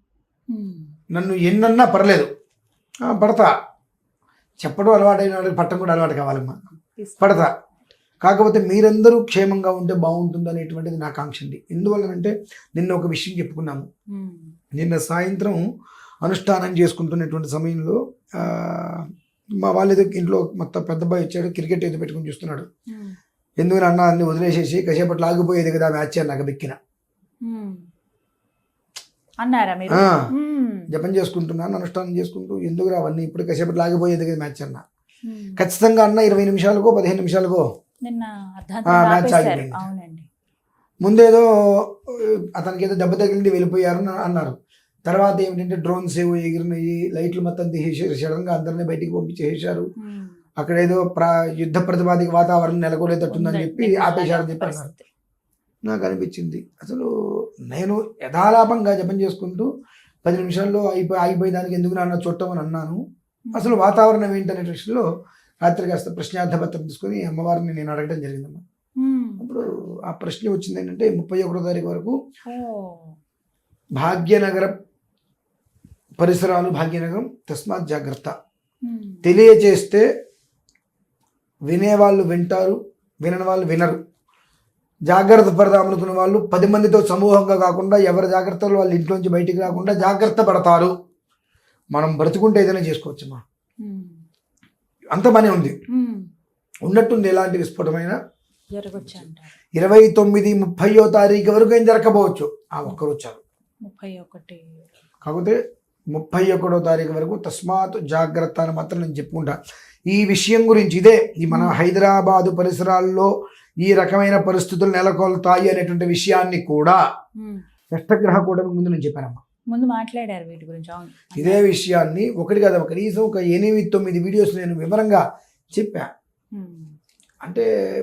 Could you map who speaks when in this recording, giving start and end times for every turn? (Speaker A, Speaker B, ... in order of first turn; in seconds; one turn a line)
Speaker A: 0.5-0.9
Speaker B: 1.1-2.3
Speaker B: 3.1-3.5
Speaker B: 4.6-6.6
Speaker A: 6.8-7.5
Speaker B: 7.2-7.5
Speaker B: 8.2-13.9
Speaker A: 14.1-14.6
Speaker B: 14.7-15.6
Speaker B: 16.2-19.1
Speaker B: 19.6-22.7
Speaker A: 22.9-23.2
Speaker B: 23.6-26.8
Speaker A: 27.4-27.9
Speaker A: 29.4-30.9
Speaker B: 29.9-30.3
Speaker B: 30.9-34.8
Speaker A: 35.2-35.6
Speaker B: 35.6-37.7
Speaker A: 38.0-40.3
Speaker B: 38.9-39.8
Speaker B: 41.0-49.9
Speaker A: 50.0-50.4
Speaker B: 50.6-54.9
Speaker A: 53.3-55.1
Speaker B: 55.9-57.1
Speaker B: 57.7-59.7
Speaker B: 60.2-63.0
Speaker A: 63.5-63.8
Speaker B: 63.5-65.0
Speaker B: 65.6-68.6
Speaker A: 69.0-69.5
Speaker B: 69.4-72.2
Speaker A: 72.5-73.2
Speaker B: 74.0-74.7
Speaker B: 76.2-78.3
Speaker A: 78.8-79.3
Speaker B: 79.2-80.1
Speaker B: 81.7-84.0
Speaker B: 85.1-90.9
Speaker A: 89.7-90.4
Speaker B: 91.9-93.4
Speaker A: 93.8-94.2
Speaker B: 95.1-95.8
Speaker A: 95.9-96.3
Speaker B: 96.9-98.2
Speaker A: 98.7-99.5
Speaker B: 99.8-103.4
Speaker A: 103.8-104.6
Speaker B: 105.2-105.6
Speaker B: 106.1-117.0
Speaker A: 111.5-111.8
Speaker A: 117.4-117.7
Speaker B: 117.9-119.4
Speaker A: 119.7-121.7
Speaker B: 121.3-126.1
Speaker A: 126.5-126.9